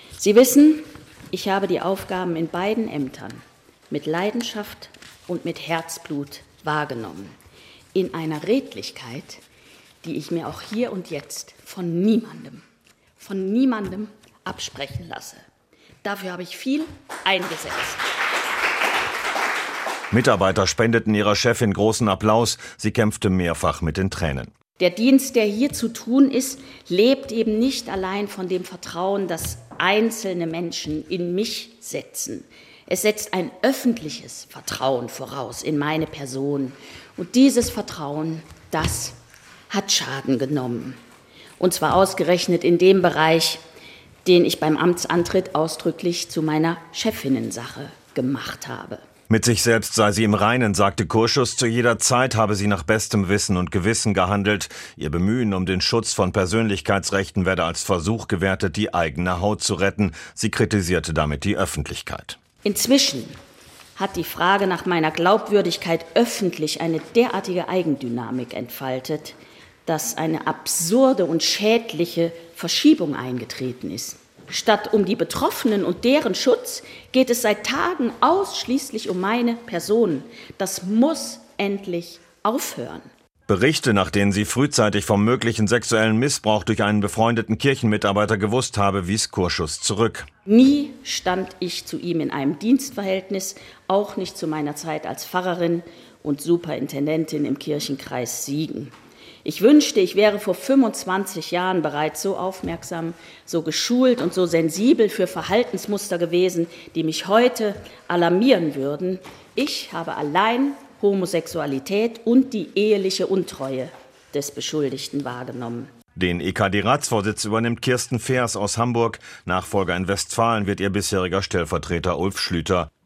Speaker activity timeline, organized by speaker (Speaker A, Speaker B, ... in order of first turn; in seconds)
Speaker A: 0.2-7.3, 7.9-9.4, 10.0-12.6, 13.2-15.4, 16.0-18.0, 24.8-39.1, 39.7-41.0, 41.6-43.6, 44.2-49.0, 62.6-63.4, 64.0-83.1, 90.5-98.9, 99.4-115.9
Speaker B: 20.1-24.5, 49.3-62.4, 83.5-90.3, 116.2-122.9